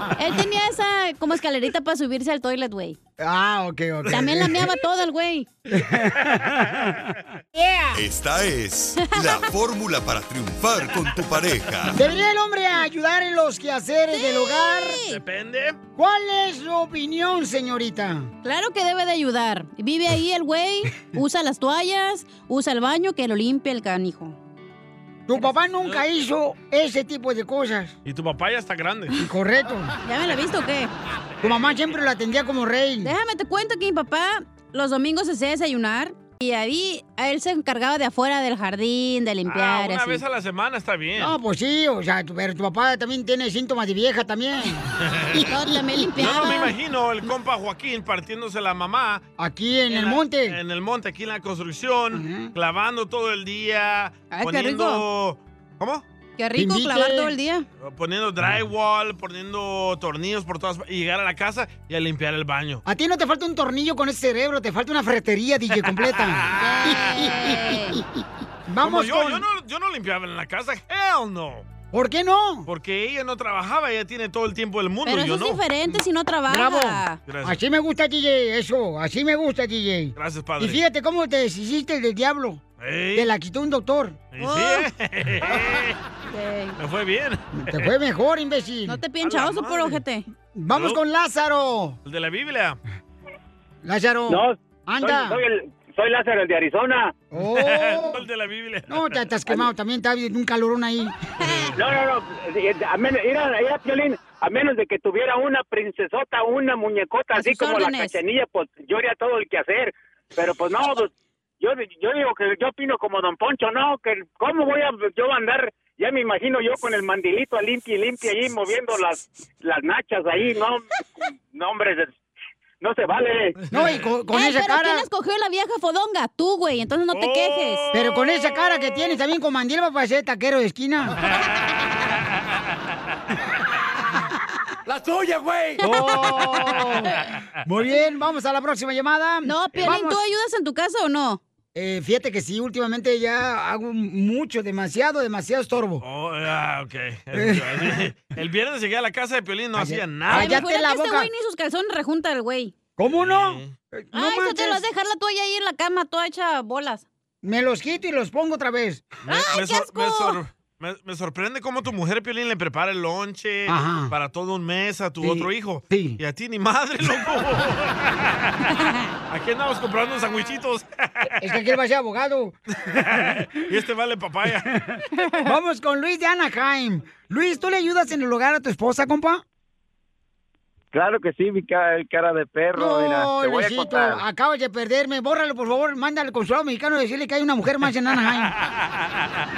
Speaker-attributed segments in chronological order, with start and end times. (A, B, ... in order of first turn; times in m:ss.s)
0:00.2-0:03.0 A
0:03.2-0:04.6 B
0:04.1-0:05.5 A
0:05.7-0:08.0 B
0:06.3-0:06.9 C
0:07.9-0:12.0 D
0:09.0-0:09.5 A
0:11.9-0:15.0 B
0:14.1-0:15.2 A
0:15.0-0:15.8 C
0:16.0-0:18.3 B
0:18.4-0:24.4 A
0:25.3-0:27.9 B
0:28.0-0:29.1 C
0:29.2-0:29.9 B
0:30.0-0:30.9 A
0:31.4-0:33.1 B
0:33.0-0:40.2 A
0:39.5-0:41.3 C
0:41.2-0:46.2 B
0:45.0-0:45.4 C
0:45.5-0:46.7 A
0:46.2-0:49.2 C
0:49.4-0:50.6 B
0:49.9-0:56.0 C
0:52.1-0:52.5 B
0:54.3-0:55.0 A
0:56.4-0:57.6 A
0:56.6-0:57.3 B
0:57.8-1:02.8 C
1:02.8-1:07.5 B
1:05.8-1:07.3 C
1:06.6-1:08.0 A
1:08.7-1:09.4 B
1:08.8-1:11.7 C
1:11.9-1:12.7 B
1:12.6-1:15.6 C
1:15.0-1:17.2 A
1:15.9-1:22.6 B
1:17.2-1:17.6 C
1:20.2-1:20.8 C
1:22.8-1:23.3 C
1:23.1-1:24.2 B
1:24.3-1:26.0 C
1:24.4-1:24.9 A
1:26.3-1:26.8 A
1:26.8-1:27.9 C
1:27.5-1:29.0 B
1:28.9-1:30.3 A
1:29.2-1:29.9 C
1:30.5-1:32.0 B
1:30.7-1:31.0 C
1:32.0-1:32.8 C
1:33.8-1:35.4 B
1:34.3-1:37.1 E
1:37.3-1:38.2 B
1:37.4-1:39.2 C
1:38.9-1:41.2 B
1:41.8-2:00.8 E
1:47.3-1:48.2 A
2:01.5-2:02.1 E
2:02.8-2:03.6 E
2:03.7-2:04.0 C
2:03.7-2:05.0 B
2:04.3-2:07.8 A
2:07.1-2:08.9 C
2:07.9-2:11.2 B
2:15.8-2:20.2 B
2:15.8-2:16.1 A
2:19.4-2:21.4 A
2:21.7-2:26.0 B
2:26.0-2:30.6 C
2:27.3-2:27.9 B
2:29.8-2:31.3 B
2:30.3-2:32.8 A
2:33.0-2:34.8 B
2:33.1-2:33.7 C
2:34.1-2:37.0 A
2:37.4-2:39.0 B
2:39.2-2:48.6 C
2:39.3-2:40.4 A
2:43.7-2:44.1 B
2:45.2-2:46.2 B
2:49.3-2:51.5 C
2:51.4-2:53.3 B
2:52.9-2:54.7 C
2:54.9-2:59.4 B
3:00.9-3:04.2 F
3:02.7-3:08.5 B